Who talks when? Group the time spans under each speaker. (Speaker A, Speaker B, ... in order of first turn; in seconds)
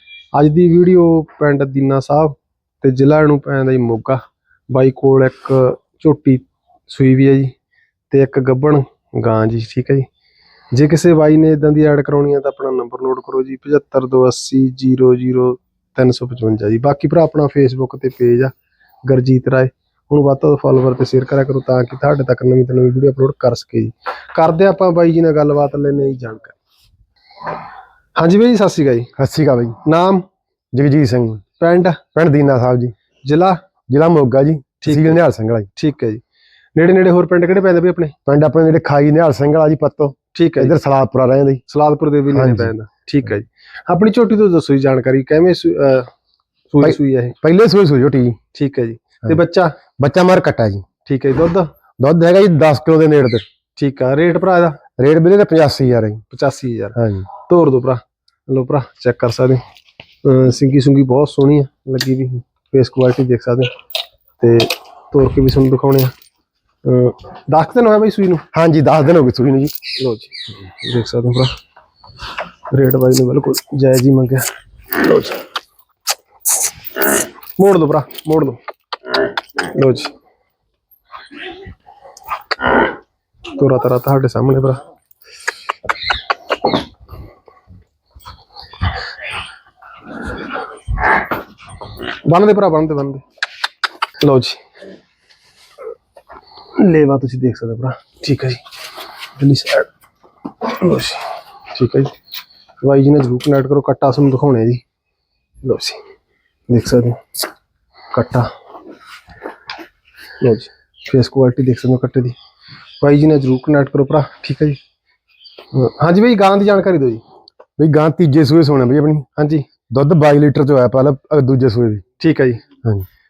Speaker A: 0.3-7.5, 8.1-10.1, 10.7-18.5, 19.1-26.6, 28.1-29.1, 29.8-30.2, 31.6-32.0, 33.2-33.6, 34.8-35.2, 35.8-36.2, 36.8-38.1, 40.3-40.8, 41.7-46.1, 46.7-47.4, 48.5-49.8, 51.0-51.7, 53.8-54.8, 56.3-59.6, 60.2-63.7, 64.4-66.1, 66.8-68.4, 70.0-71.5, 72.7-75.4, 77.6-78.6, 79.6-80.1, 83.5-84.8, 92.2-93.2, 94.2-94.6, 96.7-98.6, 99.4-99.9, 100.6-102.1, 102.8-104.8, 105.6-106.0, 106.7-107.2, 108.1-108.5, 110.4-112.3, 113.0-114.8, 115.7-117.2, 119.3-119.7, 122.2-122.6
Speaker B: 29.2-29.8, 30.7-31.4, 32.1-32.9, 33.9-35.7, 38.3-41.6, 42.3-42.7, 46.8-48.4, 50.0-50.9, 52.0-53.4, 55.0-56.2, 57.0-57.2, 68.5-69.7, 117.8-119.3, 119.9-122.0